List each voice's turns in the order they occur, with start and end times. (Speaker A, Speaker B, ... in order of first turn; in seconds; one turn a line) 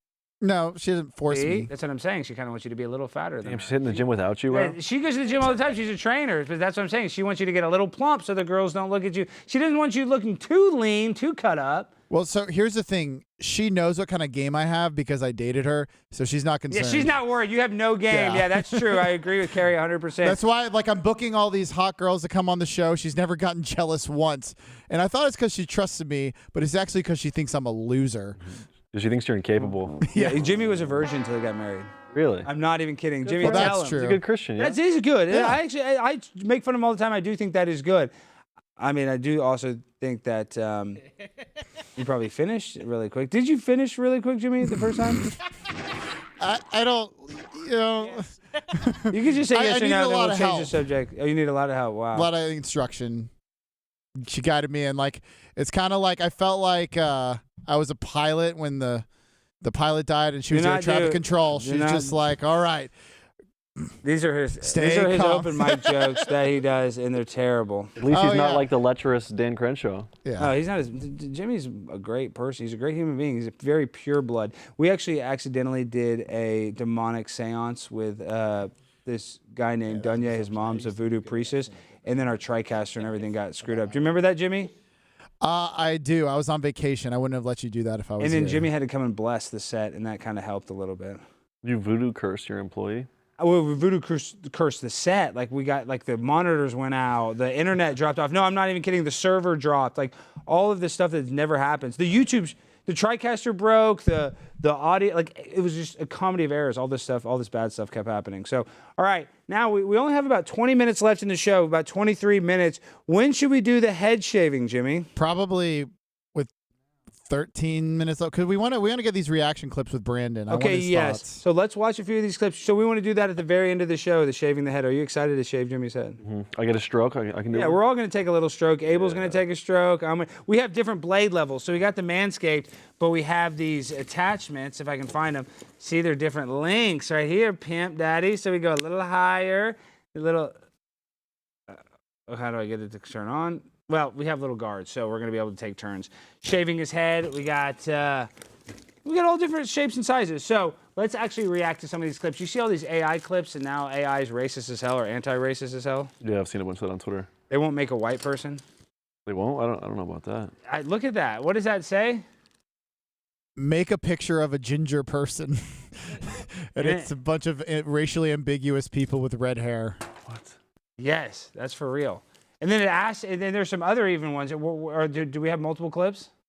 Speaker A: 0.4-1.7
Speaker B: 1.3-11.9
Speaker C: 3.4-4.8
Speaker A: 12.1-17.1
Speaker B: 16.7-20.4
Speaker A: 18.1-19.1
Speaker A: 20.2-28.4
Speaker C: 28.9-30.0
Speaker B: 29.7-31.9
Speaker A: 30.0-30.4
Speaker C: 32.1-32.5
Speaker B: 32.5-34.0
Speaker C: 33.2-34.8
Speaker A: 33.4-34.2
Speaker B: 34.6-38.1
Speaker A: 35.3-35.6
Speaker B: 38.8-41.0
Speaker B: 42.0-45.3
Speaker A: 46.4-50.8
Speaker B: 49.1-52.3
Speaker A: 52.1-53.3
Speaker A: 54.2-59.1
Speaker A: 59.6-62.9
Speaker B: 60.5-62.2
Speaker B: 64.0-68.0
Speaker A: 64.6-66.3
Speaker C: 68.0-70.1
Speaker A: 68.1-68.7
Speaker A: 70.2-70.5
Speaker B: 70.4-84.7
Speaker A: 79.9-82.0
Speaker A: 85.4-88.7
Speaker B: 88.2-91.2
Speaker C: 91.6-93.1
Speaker B: 93.4-115.1
Speaker A: 115.2-116.5
Speaker A: 117.3-121.4
Speaker B: 120.5-126.2
Speaker C: 126.2-127.8
Speaker B: 127.5-140.5
Speaker C: 129.0-129.4
Speaker B: 141.7-148.3
Speaker B: 149.0-156.1
Speaker C: 156.2-157.3
Speaker B: 157.5-158.6
Speaker C: 159.3-160.5
Speaker B: 160.7-162.2
Speaker A: 163.6-170.0
Speaker B: 166.8-167.1
Speaker C: 170.3-170.6
Speaker B: 171.0-176.3